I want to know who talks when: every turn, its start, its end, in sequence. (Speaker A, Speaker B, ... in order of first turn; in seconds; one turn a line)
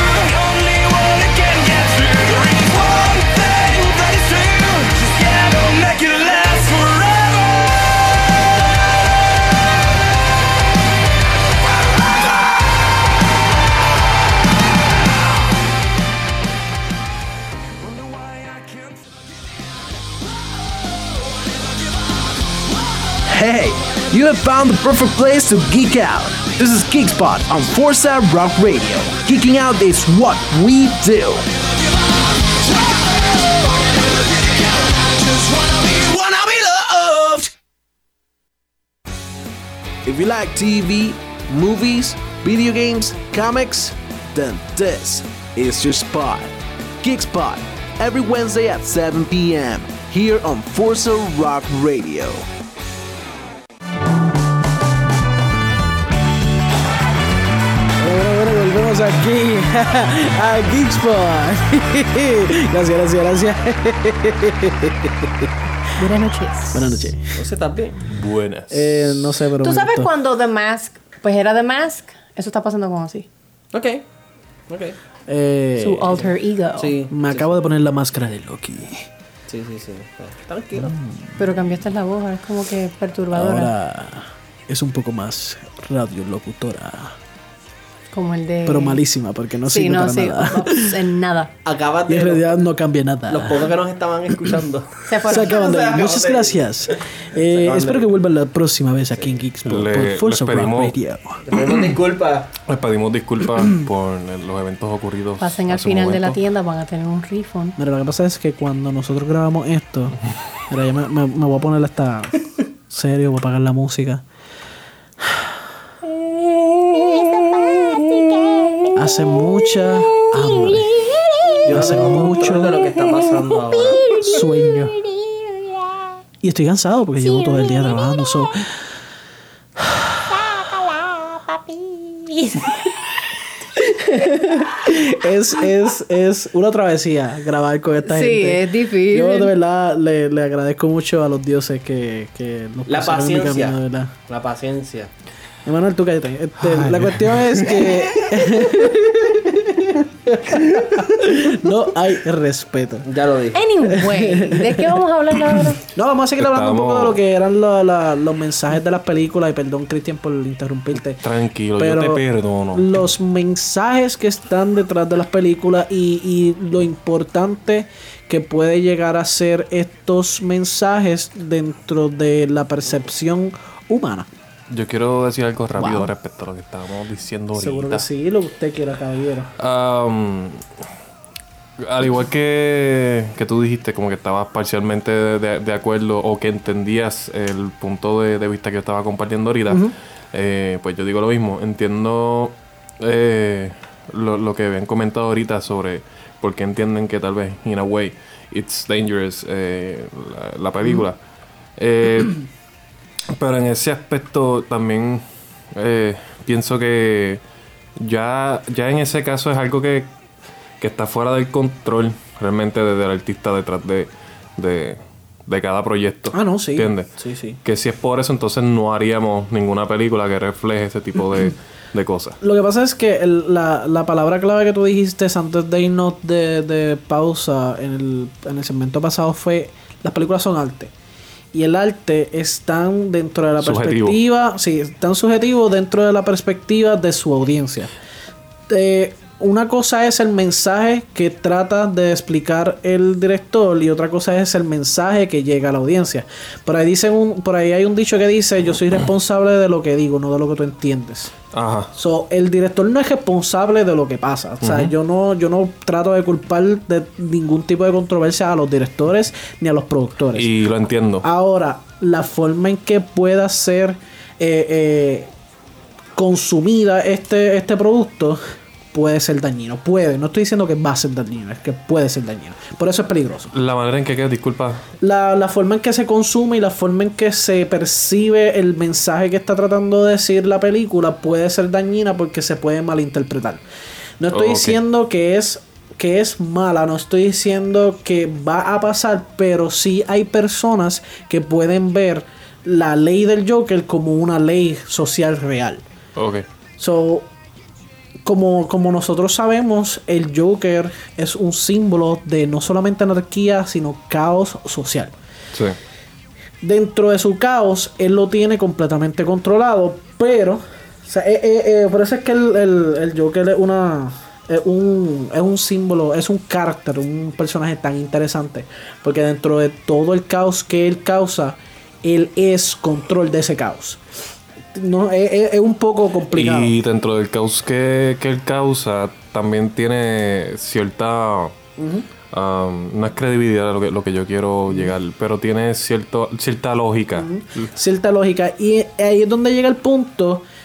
Speaker A: 0.1-7.6
Speaker A: 23.2-31.5
Speaker A: 32.6-37.5
Speaker A: 40.0-52.5
Speaker B: 58.0-65.5
Speaker C: 66.0-67.1
Speaker B: 66.7-67.3
Speaker D: 67.3-68.0
Speaker E: 68.1-69.3
Speaker B: 68.7-70.1
Speaker C: 69.6-73.3
Speaker D: 73.7-74.0
Speaker D: 74.7-75.0
Speaker B: 75.3-76.3
Speaker C: 75.8-77.0
Speaker D: 76.8-77.6
Speaker B: 77.1-79.1
Speaker D: 79.5-81.0
Speaker B: 80.8-81.3
Speaker C: 81.4-83.7
Speaker B: 83.3-87.2
Speaker C: 88.1-89.0
Speaker B: 88.7-91.0
Speaker C: 89.7-91.5
Speaker D: 91.6-92.5
Speaker B: 92.1-93.7
Speaker D: 93.3-98.1
Speaker C: 95.1-95.6
Speaker B: 95.3-101.8
Speaker E: 99.6-100.9
Speaker D: 101.4-102.5
Speaker E: 102.7-106.4
Speaker C: 105.4-107.8
Speaker B: 107.8-110.2
Speaker B: 110.7-114.2
Speaker B: 115.2-115.6
Speaker C: 118.3-118.9
Speaker B: 118.9-121.1
Speaker D: 121.6-124.1
Speaker B: 121.7-122.8
Speaker C: 124.0-124.4
Speaker B: 124.2-125.0
Speaker B: 126.4-128.7
Speaker C: 127.3-128.0
Speaker B: 129.8-130.9
Speaker C: 132.2-132.7
Speaker B: 133.7-144.1
Speaker C: 138.1-139.5
Speaker D: 142.9-145.1
Speaker B: 145.6-153.1
Speaker E: 146.6-147.9
Speaker D: 153.0-153.6
Speaker C: 153.5-155.8
Speaker B: 153.8-155.0
Speaker B: 155.6-161.2
Speaker E: 156.4-157.2
Speaker E: 161.2-163.0
Speaker B: 161.8-174.3
Speaker E: 174.7-178.1
Speaker B: 175.8-176.1
Speaker B: 177.6-179.5
Speaker E: 179.6-180.6
Speaker E: 181.8-201.2
Speaker E: 201.8-202.4
Speaker E: 203.3-207.4
Speaker E: 208.0-210.1
Speaker E: 210.8-217.1
Speaker B: 216.3-217.6
Speaker E: 217.6-222.4
Speaker B: 222.4-230.9
Speaker B: 231.5-237.9
Speaker E: 233.6-234.2
Speaker B: 238.7-251.3
Speaker E: 251.5-251.9
Speaker B: 251.9-260.5
Speaker E: 254.6-254.9
Speaker E: 260.3-261.3
Speaker B: 261.2-265.3
Speaker B: 266.1-268.4
Speaker B: 268.9-273.5
Speaker E: 273.5-274.8
Speaker B: 275.0-283.6
Speaker B: 284.2-295.8
Speaker E: 284.3-284.8
Speaker E: 296.1-296.4
Speaker B: 296.8-297.3
Speaker B: 298.2-305.1
Speaker B: 306.6-324.0
Speaker B: 324.7-326.7
Speaker E: 326.3-331.5
Speaker B: 331.8-332.1
Speaker E: 332.3-337.7
Speaker B: 337.1-340.4